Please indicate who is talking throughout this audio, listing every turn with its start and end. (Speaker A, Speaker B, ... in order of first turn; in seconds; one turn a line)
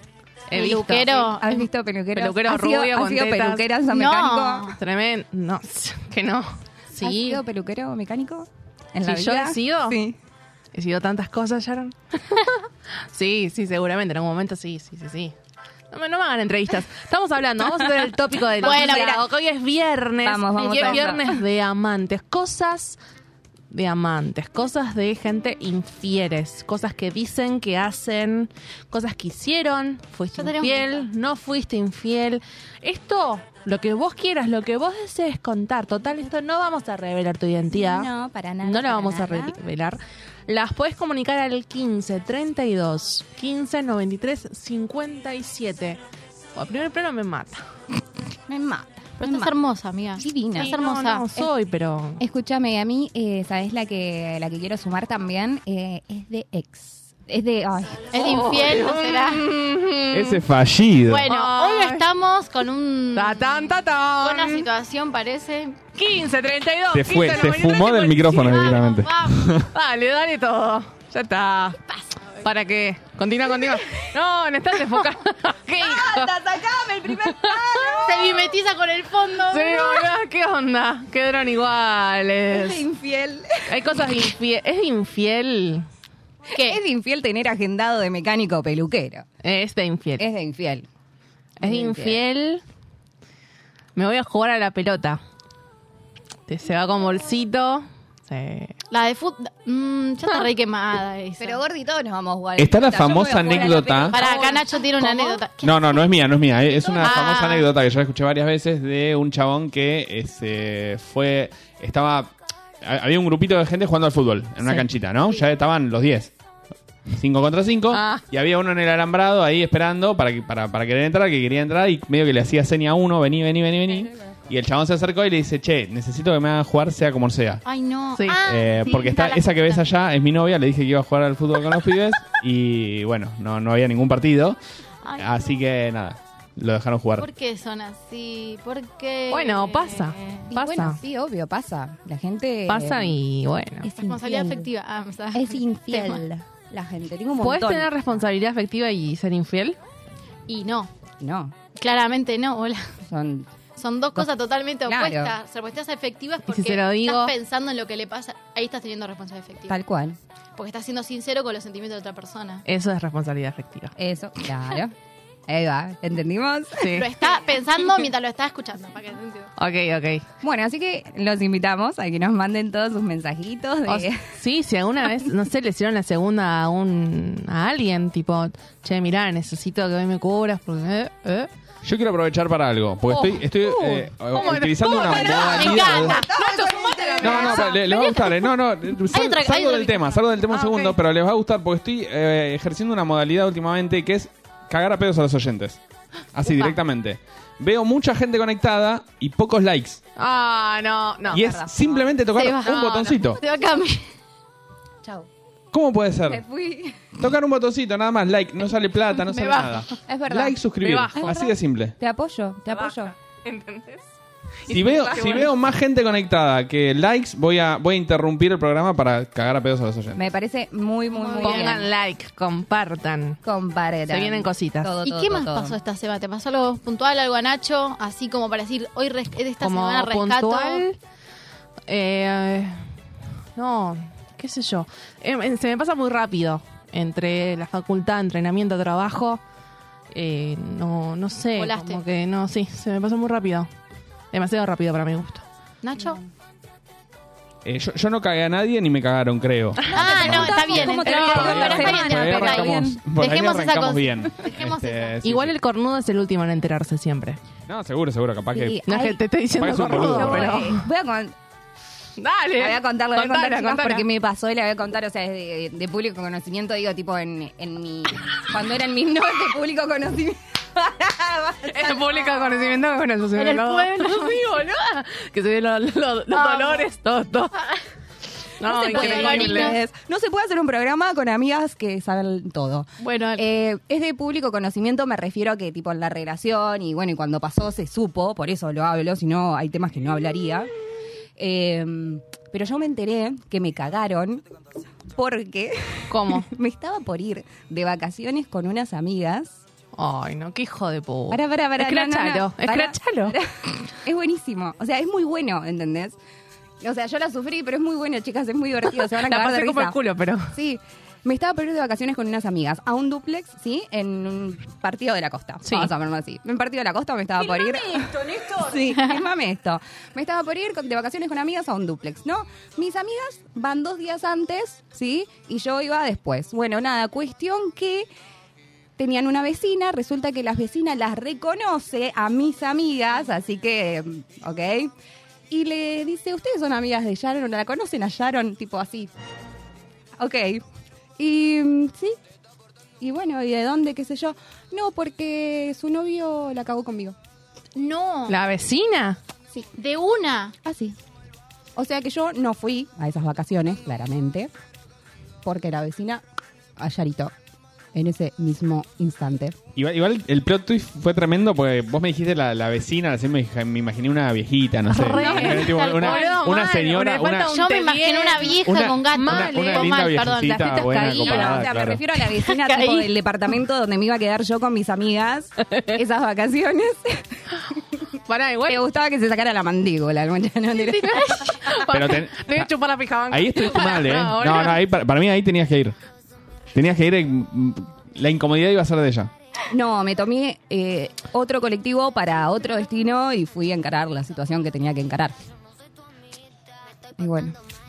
Speaker A: 0.5-1.3
Speaker B: 0.5-1.7
Speaker C: 1.1-4.7
Speaker A: 2.1-3.7
Speaker B: 3.9-4.8
Speaker A: 4.8-7.4
Speaker C: 7.0-10.2
Speaker A: 9.0-10.0
Speaker A: 10.7-12.5
Speaker A: 13.1-15.3
Speaker A: 15.9-23.0
Speaker C: 18.4-19.3
Speaker B: 18.6-19.2
Speaker C: 20.2-21.4
Speaker B: 20.8-21.0
Speaker A: 23.7-38.1
Speaker B: 30.4-31.0
Speaker C: 37.7-39.6
Speaker A: 38.6-46.0
Speaker A: 46.5-47.6
Speaker C: 48.5-49.5
Speaker B: 49.2-51.3
Speaker C: 50.2-50.7
Speaker A: 50.6-52.2
Speaker C: 52.2-58.1
Speaker B: 58.1-59.4
Speaker A: 58.1-60.5
Speaker D: 60.1-61.3
Speaker B: 61.1-65.8
Speaker A: 61.2-62.0
Speaker A: 63.1-64.7
Speaker A: 65.9-68.8
Speaker D: 66.9-69.7
Speaker B: 68.3-69.5
Speaker A: 69.7-71.8
Speaker A: 72.4-76.3
Speaker C: 75.8-78.5
Speaker A: 77.2-78.2
Speaker B: 78.0-80.1
Speaker A: 79.5-82.8
Speaker C: 82.5-84.2
Speaker A: 83.7-85.8
Speaker B: 86.5-86.8
Speaker C: 86.5-89.2
Speaker A: 89.4-90.2
Speaker C: 90.2-90.9
Speaker A: 91.6-92.6
Speaker C: 91.6-92.2
Speaker A: 94.0-95.2
Speaker A: 96.5-98.7
Speaker B: 98.9-101.6
Speaker C: 101.4-104.2
Speaker D: 102.6-104.2
Speaker A: 104.1-105.4
Speaker B: 104.1-106.0
Speaker D: 105.6-112.3
Speaker B: 106.8-107.7
Speaker D: 112.8-116.3
Speaker D: 117.1-127.6
Speaker A: 117.9-118.2
Speaker C: 123.9-124.3
Speaker B: 127.6-129.8
Speaker D: 128.4-134.6
Speaker B: 135.0-135.5
Speaker D: 135.2-137.3
Speaker B: 137.2-140.5
Speaker A: 139.3-141.0
Speaker C: 140.5-143.2
Speaker A: 142.7-143.8
Speaker C: 143.8-144.7
Speaker B: 143.9-146.2
Speaker C: 145.3-148.2
Speaker A: 147.4-149.8
Speaker B: 150.5-150.9
Speaker C: 151.2-151.6
Speaker B: 151.8-152.9
Speaker C: 153.1-153.5
Speaker B: 153.8-159.8
Speaker C: 154.8-155.3
Speaker A: 156.5-157.3
Speaker C: 159.7-160.2
Speaker B: 160.6-162.6
Speaker A: 162.7-163.9
Speaker C: 163.9-164.9
Speaker C: 165.5-167.0
Speaker A: 166.8-167.1
Speaker B: 166.9-169.5
Speaker A: 169.6-170.2
Speaker C: 170.4-174.2
Speaker A: 173.9-181.5
Speaker D: 181.8-186.2
Speaker A: 183.1-187.9
Speaker C: 185.0-187.8
Speaker B: 185.3-186.2
Speaker D: 187.2-195.8
Speaker B: 187.9-188.2
Speaker B: 189.1-190.2
Speaker A: 190.5-191.0
Speaker D: 196.3-200.0
Speaker C: 196.5-196.7
Speaker A: 200.2-201.5
Speaker D: 201.3-203.4
Speaker C: 201.3-202.1
Speaker B: 202.3-204.0
Speaker A: 202.6-203.3
Speaker D: 205.7-206.4
Speaker C: 206.3-207.1
Speaker D: 207.2-211.9
Speaker B: 209.3-209.8
Speaker C: 210.1-213.1
Speaker A: 210.8-211.5
Speaker A: 212.7-214.0
Speaker A: 214.7-215.5
Speaker D: 214.7-220.2
Speaker C: 220.1-221.9
Speaker B: 221.1-221.8
Speaker A: 221.4-223.4
Speaker C: 223.4-225.8
Speaker A: 224.1-224.9
Speaker B: 225.0-230.8
Speaker A: 229.6-231.0
Speaker A: 231.9-232.8
Speaker A: 233.6-239.4
Speaker A: 240.1-243.7
Speaker B: 241.6-242.0
Speaker A: 244.3-245.4
Speaker B: 245.8-246.2
Speaker D: 247.6-255.5
Speaker A: 249.8-250.3
Speaker C: 249.9-253.0
Speaker B: 249.9-255.2
Speaker A: 251.0-251.8
Speaker A: 255.2-257.4
Speaker D: 257.7-258.8
Speaker C: 258.5-261.3
Speaker A: 258.8-260.8
Speaker D: 259.6-260.6
Speaker A: 262.2-264.0
Speaker C: 262.6-272.6
Speaker A: 271.7-277.5
Speaker B: 273.4-274.4
Speaker B: 276.3-276.9
Speaker A: 278.6-279.8
Speaker C: 278.6-290.7
Speaker B: 278.7-279.8
Speaker B: 283.0-283.4
Speaker C: 291.4-294.4
Speaker C: 295.1-299.6
Speaker A: 296.1-296.5
Speaker A: 299.9-303.4
Speaker C: 301.3-306.2
Speaker C: 306.8-310.0
Speaker A: 309.1-310.5
Speaker C: 310.5-328.1
Speaker A: 315.6-315.9
Speaker C: 329.0-334.9
Speaker C: 335.5-339.1
Speaker C: 340.2-340.6
Speaker C: 341.2-342.2
Speaker C: 343.0-347.1
Speaker B: 347.7-348.4
Speaker A: 348.3-349.2
Speaker B: 349.8-350.5
Speaker C: 350.6-350.9
Speaker C: 351.8-354.5
Speaker C: 355.4-356.2
Speaker C: 356.8-357.3
Speaker C: 357.9-359.6
Speaker D: 359.8-367.5
Speaker A: 364.9-371.7
Speaker B: 365.0-366.4
Speaker B: 367.4-371.1
Speaker D: 368.5-372.0
Speaker C: 371.0-378.0
Speaker B: 372.4-373.1
Speaker A: 378.3-378.8
Speaker C: 378.6-381.6
Speaker A: 381.2-384.8
Speaker D: 381.9-382.7
Speaker D: 383.3-385.9
Speaker D: 386.7-389.3
Speaker C: 389.7-395.4
Speaker C: 397.2-397.5